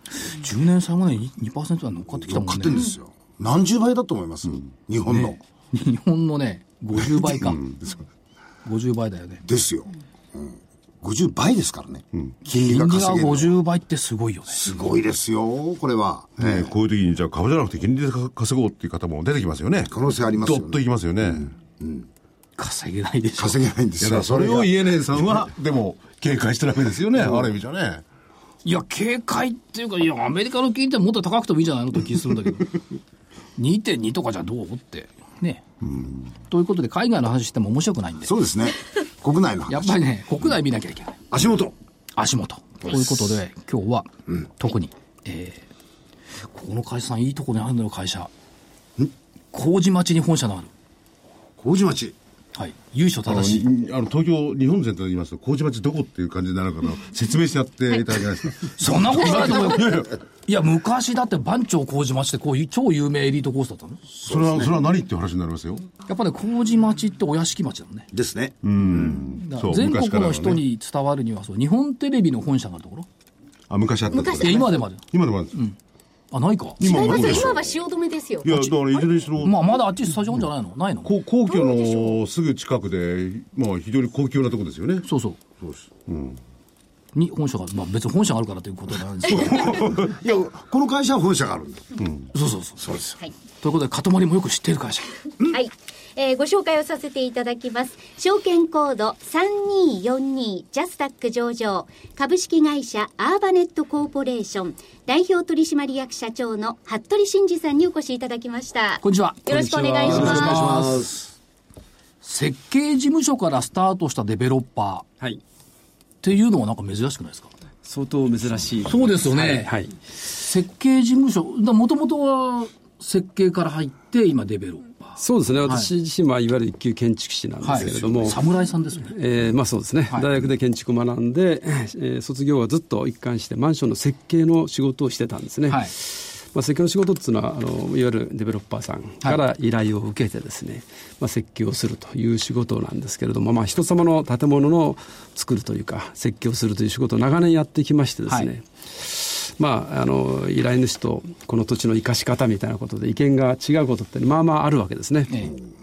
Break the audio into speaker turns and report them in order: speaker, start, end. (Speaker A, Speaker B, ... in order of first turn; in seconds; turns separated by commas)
Speaker A: 0.1-2.9, Speaker B: 2.3-5.4, Speaker A: 5.1-7.7, Speaker A: 8.6-9.4, Speaker B: 9.4-13.5, Speaker A: 12.5-14.6, Speaker B: 14.5-16.7, Speaker C: 16.4-19.9, Speaker B: 19.9-20.8, Speaker C: 20.4-21.5, Speaker B: 21.4-22.1, Speaker A: 22.6-23.6, Speaker B: 23.4-24.8, Speaker C: 24.0-28.0, Speaker A: 28.6-32.8, Speaker A: 33.6-35.6, Speaker A: 36.5-38.4, Speaker B: 38.2-40.0, Speaker A: 39.7-41.3, Speaker B: 41.3-41.7, Speaker A: 42.2-45.6, Speaker A: 46.4-48.3, Speaker A: 49.5-50.7, Speaker B: 51.6-52.1, Speaker A: 52.5-53.7, Speaker C: 53.3-60.2, Speaker A: 58.7-64.2, Speaker C: 64.2-65.9, Speaker B: 64.3-64.6, Speaker A: 66.1-68.1, Speaker B: 68.1-69.2, Speaker C: 68.6-70.6, Speaker A: 69.3-73.1, Speaker C: 73.7-75.5, Speaker D: 74.1-74.6, Speaker A: 74.4-75.8, Speaker A: 76.3-77.5, Speaker C: 76.8-77.7, Speaker D: 76.8-79.1, Speaker C: 78.4-79.6, Speaker A: 79.4-81.1, Speaker C: 81.0-85.0, Speaker D: 81.5-82.2, Speaker A: 85.0-85.4, Speaker C: 86.1-86.4, Speaker A: 87.1-89.9, Speaker B: 89.4-91.9, Speaker C: 92.0-92.3, Speaker A: 92.3-93.0, Speaker B: 92.8-93.2, Speaker A: 93.6-95.3, Speaker D: 95.4-110.9, Speaker A: 109.0-111.1, Speaker E: 110.0-110.6, Speaker B: 110.0-111.2, Speaker A: 112.2-115.1, Speaker A: 116.2-117.5, Speaker E: 117.8-120.0, Speaker A: 118.8-119.7, Speaker A: 120.3-125.9, Speaker E: 125.2-128.4, Speaker A: 127.6-129.2, Speaker E: 129.1-155.5